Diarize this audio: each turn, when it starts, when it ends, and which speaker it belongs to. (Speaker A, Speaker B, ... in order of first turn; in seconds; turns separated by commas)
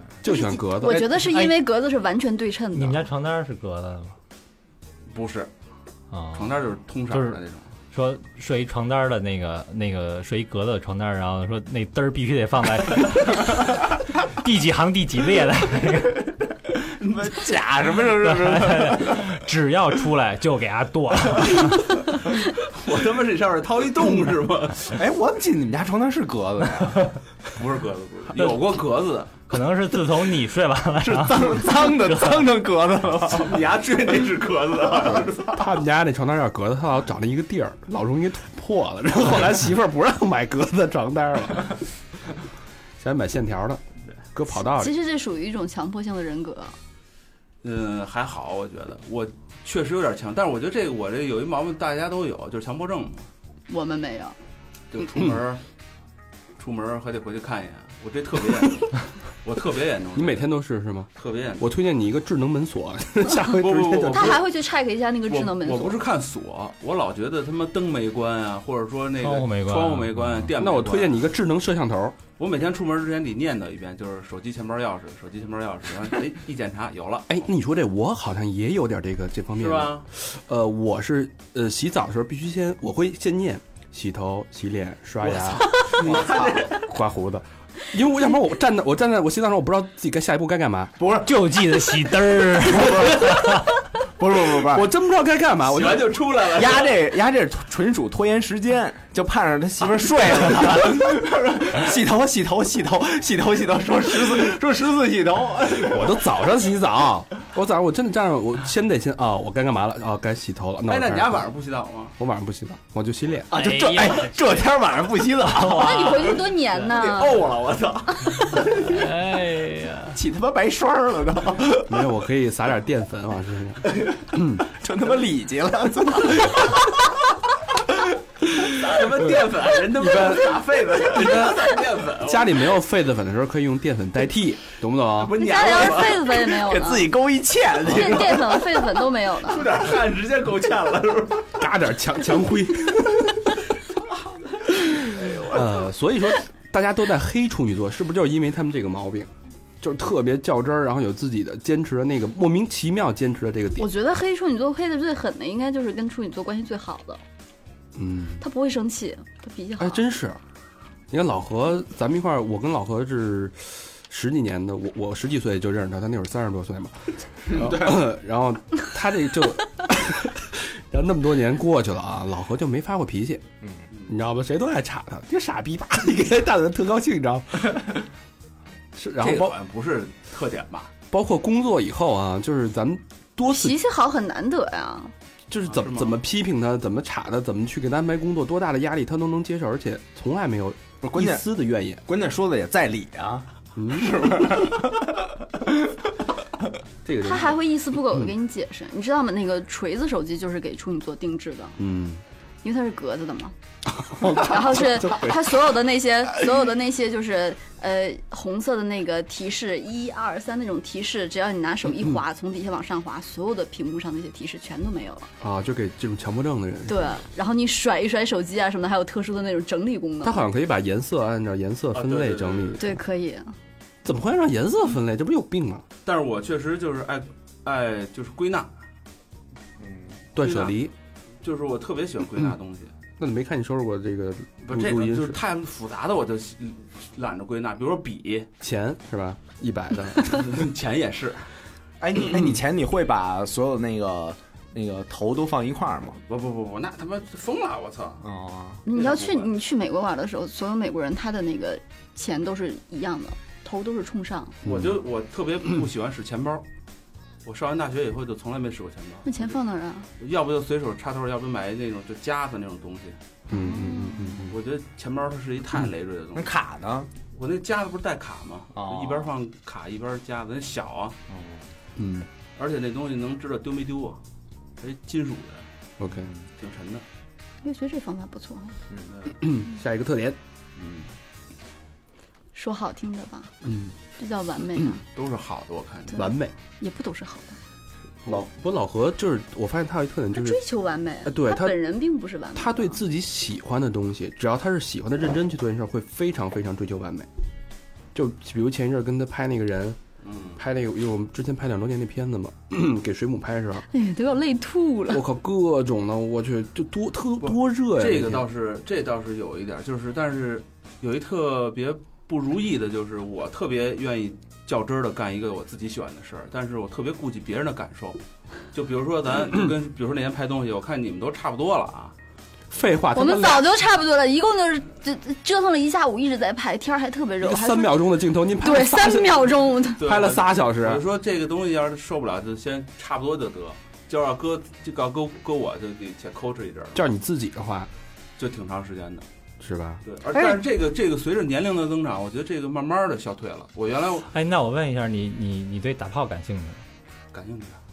Speaker A: 0.2-1.0, Speaker B: 0.2-3.1, Speaker C: 1.1-1.5, Speaker C: 2.7-4.1, Speaker D: 5.1-5.5, Speaker C: 6.1-6.6, Speaker D: 6.3-7.7, Speaker C: 7.1-7.4, Speaker C: 7.9-16.2, Speaker E: 17.0-19.3, Speaker C: 18.2-22.0, Speaker D: 22.7-25.0, Speaker E: 25.0-27.0, Speaker D: 27.5-29.4, Speaker C: 28.4-28.6, Speaker C: 29.5-32.5, Speaker E: 31.0-33.6, Speaker D: 33.3-35.7, Speaker A: 35.5-41.8, Speaker A: 43.0-43.8, Speaker A: 44.3-44.9, Speaker B: 44.5-46.8, Speaker D: 47.6-53.3, Speaker B: 53.7-54.4, Speaker D: 54.9-55.6, Speaker D: 56.6-60.5, Speaker A: 60.1-64.4, Speaker D: 61.1-61.7, Speaker D: 63.6-64.4, Speaker B: 64.1-66.0, Speaker D: 65.3-71.3, Speaker C: 69.2-70.5, Speaker A: 70.6-72.2, Speaker D: 72.4-77.4, Speaker A: 77.3-91.0, Speaker D: 79.6-80.1, Speaker D: 85.5-86.9, Speaker E: 86.0-86.6, Speaker E: 91.0-91.7, Speaker C: 91.2-93.7, Speaker E: 92.6-93.4, Speaker E: 94.2-94.9, Speaker A: 94.6-96.2, Speaker D: 95.7-97.0, Speaker E: 96.5-106.2, Speaker A: 105.8-111.5, Speaker D: 110.9-112.2, Speaker A: 112.2-113.5, Speaker E: 113.5-116.3, Speaker C: 113.5-114.4, Speaker C: 115.5-116.4, Speaker B: 115.7-117.4, Speaker D: 116.9-118.6, Speaker C: 118.8-120.2, Speaker E: 120.1-122.0, Speaker A: 121.9-124.6, Speaker E: 124.6-127.1, Speaker D: 128.6-132.8, Speaker A: 130.0-130.5, Speaker A: 131.1-131.6, Speaker A: 132.2-135.4, Speaker D: 135.1-136.4, Speaker B: 135.4-137.1, Speaker E: 136.4-138.9, Speaker B: 137.8-139.7, Speaker D: 139.4-141.6, Speaker A: 141.6-143.6, Speaker D: 145.1-145.6, Speaker A: 145.5-149.3, Speaker A: 149.8-153.9, Speaker B: 153.8-157.2, Speaker A: 157.9-158.4, Speaker B: 158.4-160.0, Speaker A: 159.8-160.4, Speaker A: 161.1-173.4, Speaker A: 174.1-177.9, Speaker A: 178.9-179.5, Speaker D: 179.2-180.9, Speaker A: 181.1-183.8, Speaker B: 183.5-185.1, Speaker A: 185.5-192.0, Speaker D: 185.7-186.2, Speaker E: 191.1-191.5, Speaker E: 192.1-195.7, Speaker A: 193.8-194.3, Speaker A: 197.0-198.3, Speaker B: 197.2-201.8, Speaker A: 201.8-202.2, Speaker B: 202.6-203.5, Speaker A: 204.0-205.4, Speaker B: 204.2-215.3, Speaker A: 215.4-217.1, Speaker B: 216.9-220.4, Speaker A: 220.2-222.9, Speaker D: 221.9-222.8, Speaker B: 222.8-223.5, Speaker A: 224.0-225.8, Speaker D: 226.0-228.7, Speaker E: 229.8-230.2, Speaker A: 230.4-230.9, Speaker D: 230.4-230.8, Speaker D: 231.4-232.9, Speaker A: 233.2-235.4, Speaker D: 234.6-238.5, Speaker A: 238.6-240.6, Speaker D: 240.2-241.5, Speaker E: 242.0-246.2, Speaker D: 246.3-248.2, Speaker E: 248.2-248.8, Speaker B: 248.8-254.6, Speaker D: 248.9-249.5, Speaker A: 254.6-254.9, Speaker D: 254.6-256.6, Speaker D: 257.4-259.5, Speaker B: 259.2-260.1, Speaker D: 260.2-263.2, Speaker A: 263.5-264.6, Speaker B: 263.5-264.4, Speaker D: 264.5-266.5, Speaker E: 266.4-267.1, Speaker D: 267.3-271.1, Speaker E: 268.7-269.3, Speaker E: 271.3-271.7, Speaker A: 272.0-272.3, Speaker D: 272.6-274.2, Speaker D: 274.8-275.6, Speaker A: 276.0-276.3, Speaker D: 276.6-277.0, Speaker B: 277.6-278.8, Speaker A: 279.4-280.4, Speaker D: 280.8-281.1, Speaker B: 282.5-283.5, Speaker A: 283.6-283.9, Speaker B: 284.2-285.0, Speaker D: 285.1-286.2, Speaker A: 286.1-286.5, Speaker B: 286.8-287.6, Speaker A: 288.2-290.6, Speaker B: 290.4-293.0, Speaker A: 291.2-291.8, Speaker A: 292.5-297.3, Speaker A: 298.1-300.0, Speaker D: 300.2-300.6, Speaker A: 300.6-303.9, Speaker B: 303.9-305.2, Speaker A: 305.1-308.4, Speaker D: 307.4-318.2, Speaker D: 318.7-322.1, Speaker A: 322.7-323.7, Speaker B: 323.1-328.0, Speaker A: 327.4-331.0, Speaker B: 328.6-330.0, Speaker D: 330.0-337.0, Speaker A: 336.9-337.9, Speaker D: 338.4-339.2, Speaker A: 339.6-340.0, Speaker D: 340.1-344.3, Speaker C: 344.2-346.8, Speaker D: 347.3-347.8